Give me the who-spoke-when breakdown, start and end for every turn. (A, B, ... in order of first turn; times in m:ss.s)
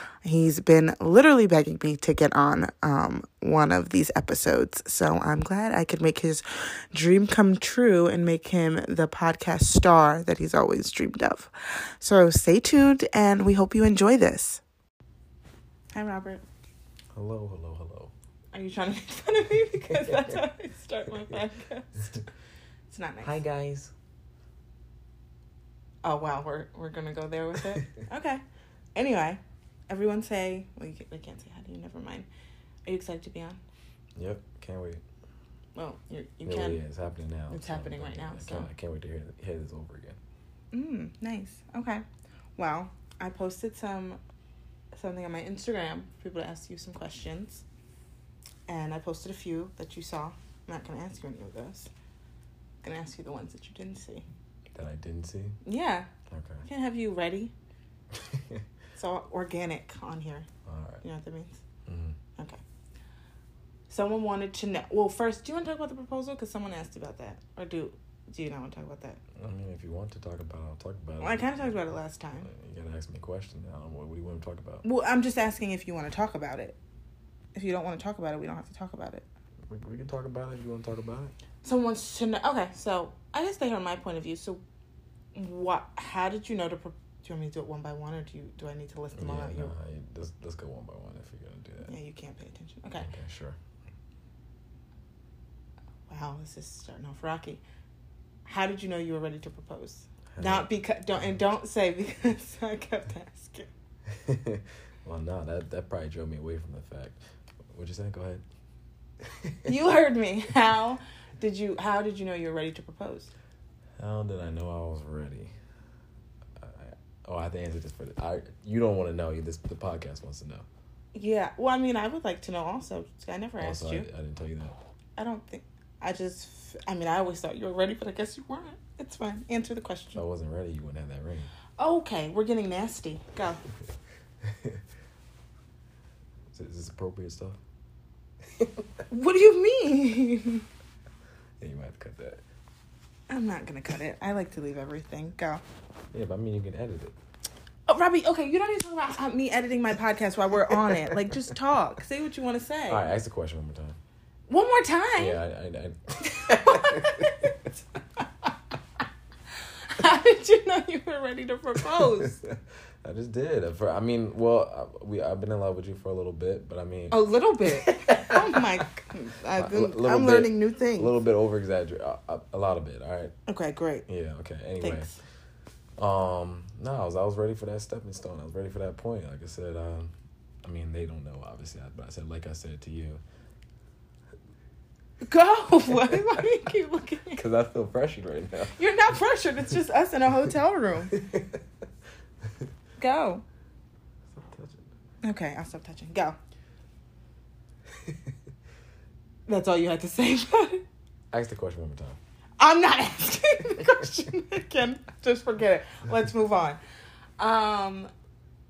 0:00.2-0:14.6 A
0:15.9-0:16.4 A
0:17.1-0:18.1 B
0:18.5-0:22.2 A
0:22.9-0:23.4 A
0:23.2-0:23.9 B
0:26.0-0:28.4 A
0:28.9-0:32.3 A
0:32.8-0:33.6 A
0:34.2-0:35.0 B
0:35.8-0:36.8 A
0:36.4-0:40.2 B
0:37.5-0:38.7 A
0:40.7-0:42.0 A
0:42.6-0:44.2 A
0:44.9-0:47.6 A
0:48.7-0:51.9 A
0:52.8-0:54.2 A
0:54.7-0:55.6 B
0:55.6-0:56.1 A
0:56.3-0:56.6 B
0:56.6-0:57.5 A
0:58.1-0:58.6 B
0:59.0-1:00.5 A
1:00.6-1:01.0 B
1:01.0-1:01.6 A
1:01.8-1:02.2 B
1:03.9-1:09.2 A
1:09.3-1:11.9 B
1:11.2-1:12.5 A
1:12.4-1:14.8 B
1:14.8-1:16.8 A
1:17.5-1:19.2 A
1:19.7-1:21.3 B
1:21.6-1:24.6 A
1:25.3-1:29.7 A
1:29.1-1:31.9 B
1:31.8-1:33.1 A
1:33.0-1:33.6 B
1:36.1-1:37.6 A
1:38.4-1:43.7 A
1:40.3-1:40.7 B
1:44.1-1:48.4 B
1:49.2-1:49.7 B
1:49.6-1:53.3 A
1:54.0-1:55.5 B
1:56.6-2:00.6 B
2:01.1-2:04.1 A
2:03.6-2:04.8 B
2:05.2-2:10.2 A
2:10.1-2:11.5 B
2:11.8-2:13.6 A
2:14.4-2:14.8 B
2:16.5-2:17.6 B
2:18.5-2:18.8 B
2:19.1-2:20.6 A
2:21.6-2:22.4 B
2:23.3-2:25.6 A
2:26.1-2:27.1 B
2:27.9-2:33.0 A
2:32.9-2:34.0 B
2:34.5-2:35.4 A
2:35.2-2:37.7 B
2:36.2-2:37.7 A
2:39.8-2:42.4 A
2:41.9-2:48.8 B
2:47.1-2:51.2 A
2:49.5-2:53.3 B
2:53.5-2:54.0 A
2:54.1-2:55.2 B
2:54.8-2:55.2 A
2:56.0-3:00.1 B
3:00.6-3:03.2 B
3:05.2-3:07.4 A
3:05.9-3:06.4 B
3:07.3-3:08.8 B
3:08.7-3:11.2 A
3:11.1-3:11.6 B
3:13.0-3:13.4 A
3:14.3-3:14.8 B
3:15.2-3:16.4 A
3:19.5-3:20.8 A
3:21.3-3:22.2 B
3:22.6-3:26.8 A
3:27.4-3:28.1 A